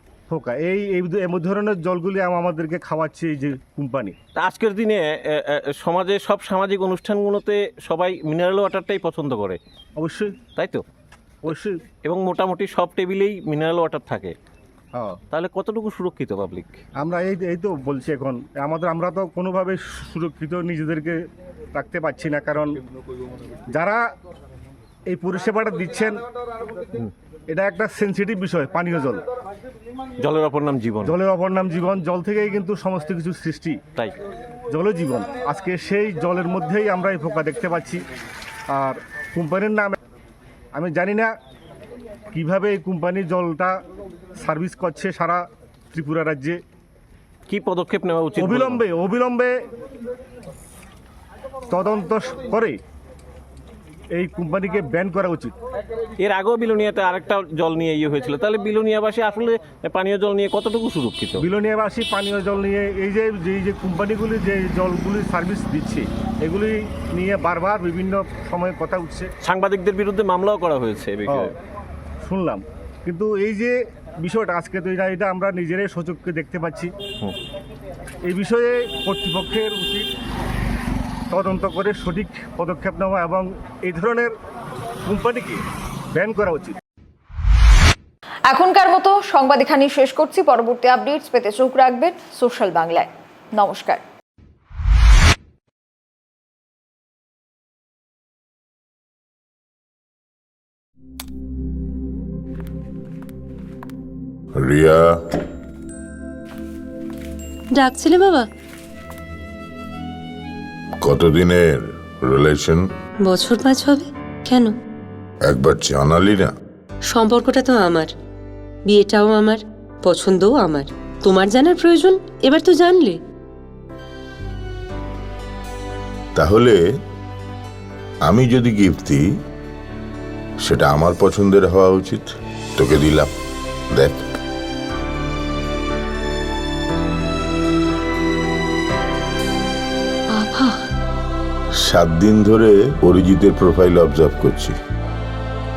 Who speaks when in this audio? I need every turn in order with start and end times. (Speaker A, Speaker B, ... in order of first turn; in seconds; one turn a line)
Speaker A: 0.3-4.2
Speaker B: 4.3-9.6
Speaker A: 10.0-10.4
Speaker B: 10.6-10.8
Speaker A: 11.4-11.8
Speaker B: 12.0-14.3
Speaker A: 14.9-15.2
Speaker B: 15.3-16.8
Speaker A: 17.0-21.2
Speaker A: 21.7-22.8
Speaker A: 23.7-24.0
Speaker A: 25.1-26.2
Speaker A: 27.5-29.2
Speaker B: 30.2-31.2
Speaker A: 31.1-33.8
Speaker A: 34.7-38.0
Speaker A: 38.7-40.0
Speaker A: 40.7-41.3
Speaker A: 42.3-43.8
Speaker A: 44.4-46.6
Speaker B: 47.5-48.8
Speaker A: 48.4-49.6
Speaker A: 51.7-52.8
Speaker A: 54.1-55.5
Speaker B: 56.2-61.4
Speaker A: 61.4-69.3
Speaker B: 69.4-71.5
Speaker A: 72.2-76.9
Speaker A: 78.2-80.1
Speaker A: 81.3-84.3
Speaker A: 85.0-85.6
Speaker A: 86.1-86.8
Speaker C: 88.5-94.0
Speaker D: 104.6-105.2
Speaker E: 107.7-108.5
Speaker D: 111.0-112.9
Speaker E: 113.2-114.7
Speaker D: 115.5-116.5
Speaker E: 117.1-118.1
Speaker E: 118.9-123.2
Speaker D: 126.3-126.8
Speaker D: 128.2-129.2
Speaker D: 130.6-133.3
Speaker D: 133.9-134.2
Speaker E: 140.3-140.8
Speaker D: 141.8-144.8